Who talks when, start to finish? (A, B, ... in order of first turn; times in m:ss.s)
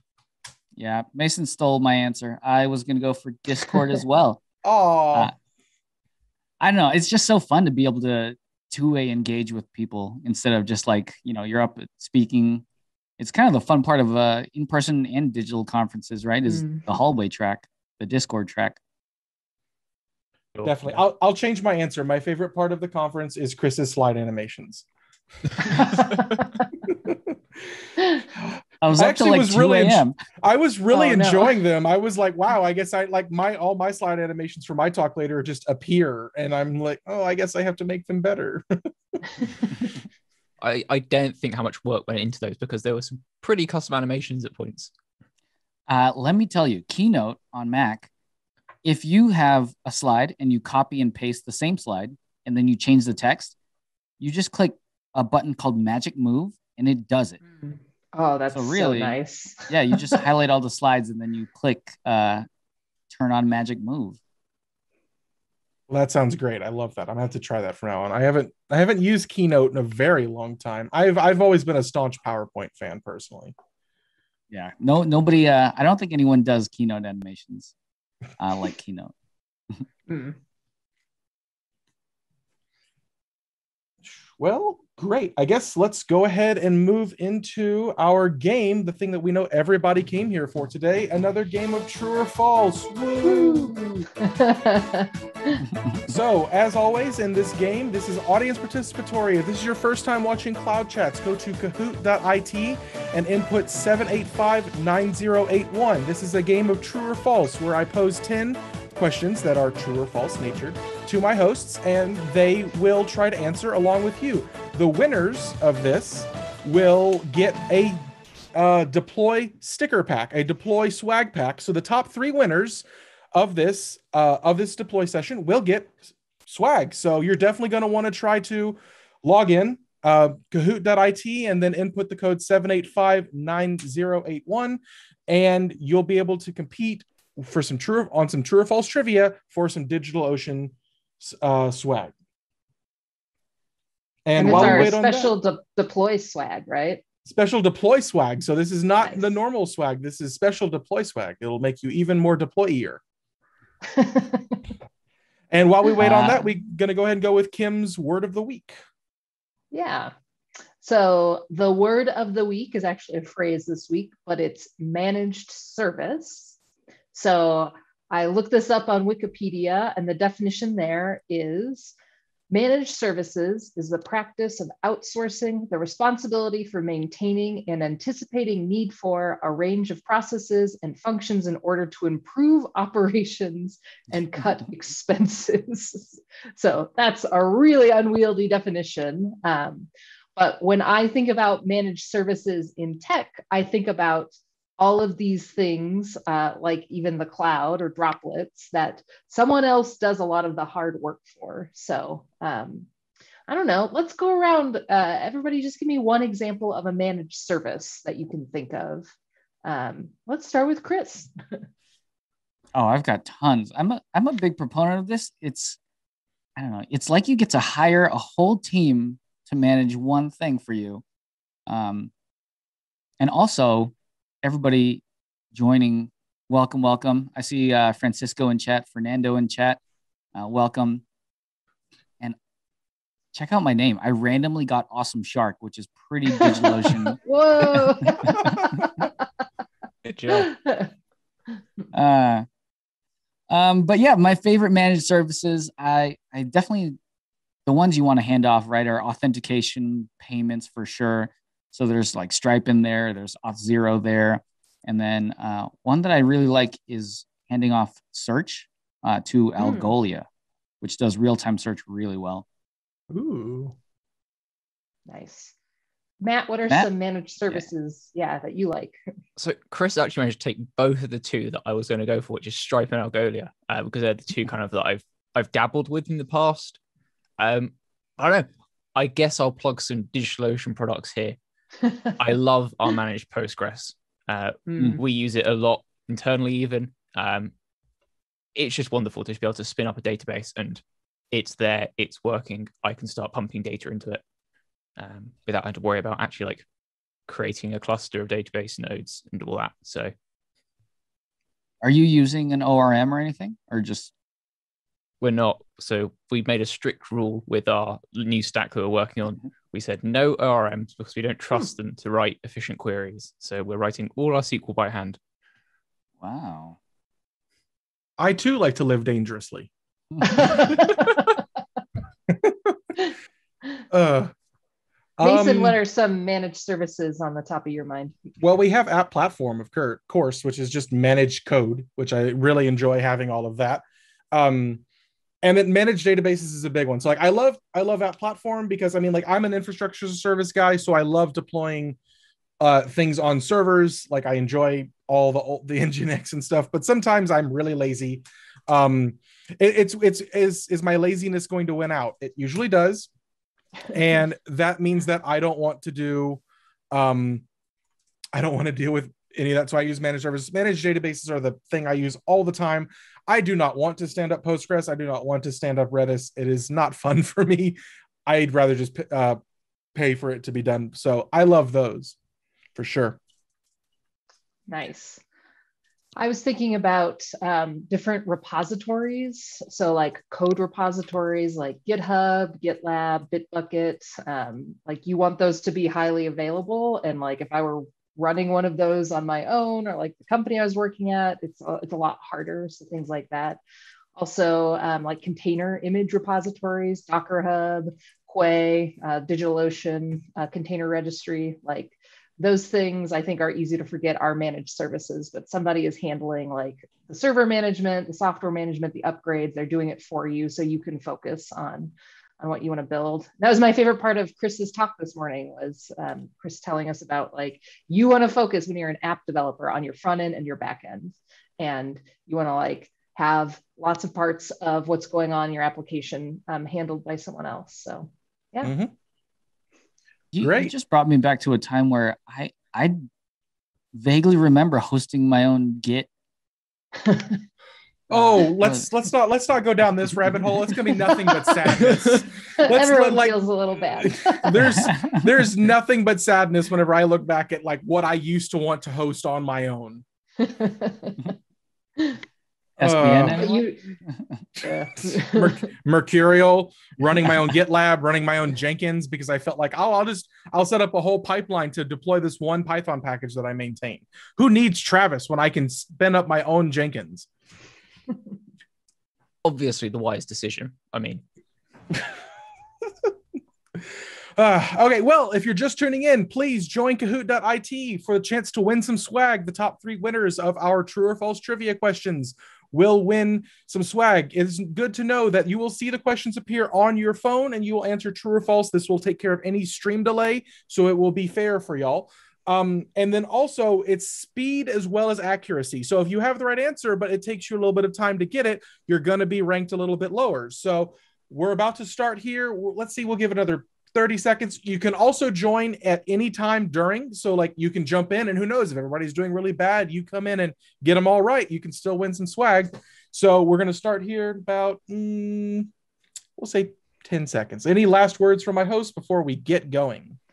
0:00.8-0:04.4 A
0:04.6-0:05.3 B
0:06.6-0:12.6 A
0:13.2-0:18.8 A
0:16.5-0:16.8 C
0:20.6-0:21.0 D
0:20.6-0:24.9 B
0:25.6-0:26.6 C
0:26.9-0:27.8 B
0:28.0-0:28.2 C
0:28.3-0:39.4 B
0:28.8-0:30.2 A
0:30.9-0:31.6 C
0:40.6-0:44.9 D
0:45.9-0:48.1 A
0:48.8-0:53.6 A
0:54.2-0:57.4 A
0:57.6-1:00.2 C
0:58.5-0:59.2 A
0:59.7-1:02.5 A
1:03.1-1:04.2 A
1:05.9-1:13.6 B
1:14.5-1:17.7 A
1:18.4-1:19.1 A
1:20.1-1:20.4 C
1:24.0-1:33.8 B
1:33.2-1:35.6 C
1:35.7-1:36.0 A
1:36.1-1:58.0 B
1:58.6-2:22.1 B
2:24.2-2:25.3 B
2:24.4-2:27.0 C
2:24.4-2:24.9 A
2:27.2-2:33.0 B
2:29.0-2:29.4 C
2:33.9-2:34.6 C
2:35.5-2:38.8 B
2:36.0-2:36.4 A
2:39.7-2:40.1 C
2:40.8-2:46.6 C
2:47.1-2:51.9 C
2:52.5-3:22.9 C
3:23.5-3:29.1 C
3:29.6-3:31.6 C
3:32.8-3:35.8 A
3:36.6-3:41.0 A
3:41.7-3:42.1 A
3:43.2-3:49.8 A
3:50.4-3:51.0 A
3:53.3-3:57.2 A
3:56.4-3:59.1 C
3:57.7-3:58.7 A
4:00.0-4:00.5 D
4:00.3-4:00.9 C
4:01.9-4:02.5 A
4:03.5-4:07.0 A
4:07.7-4:20.3 A
4:19.6-4:19.9 C
4:20.8-4:22.4 A
4:23.1-4:23.8 B
4:25.1-4:25.5 C
4:26.2-4:29.0 C
4:29.4-4:36.8 D
4:37.4-4:41.4 D
4:41.8-4:42.1 C
4:42.1-4:47.5 D
4:44.7-4:45.0 C
4:48.6-4:54.2 D
4:55.0-4:56.7 D
4:57.3-5:00.1 D
5:01.8-5:04.1 A
5:05.2-5:15.2 D
5:16.2-5:16.8 A
5:18.2-5:19.7 B
5:20.1-5:20.5 A
5:20.2-5:21.3 C
5:22.3-5:22.8 B
5:23.9-5:24.3 B
5:25.2-5:25.8 B
5:25.2-5:28.2 C
5:28.4-5:34.8 B
5:35.4-5:42.0 B
5:42.6-5:53.1 B
5:53.9-5:57.4 B
5:58.3-6:09.4 B
6:10.0-6:12.2 B
6:12.8-6:13.2 B
6:14.7-6:15.2 C
6:16.2-6:33.6 C
6:34.2-7:08.7 C
7:08.6-7:08.9 B
7:10.3-7:13.0 A
7:10.4-7:10.7 B
7:13.9-7:16.1 A
7:17.0-7:17.4 C
7:18.1-7:23.4 B
7:18.1-7:18.9 A
7:21.0-7:21.6 C
7:21.8-7:22.2 D
7:22.6-7:24.5 C
7:24.0-7:30.0 B
7:24.6-7:25.2 A
7:30.4-7:31.4 C
7:32.8-7:34.5 A
7:32.8-7:33.5 B
7:33.3-7:33.9 C
7:34.6-7:35.7 C
7:35.0-7:47.3 B
7:49.4-7:51.2 D
7:52.8-7:53.1 B
7:53.8-8:35.7 B
8:36.4-8:40.2 B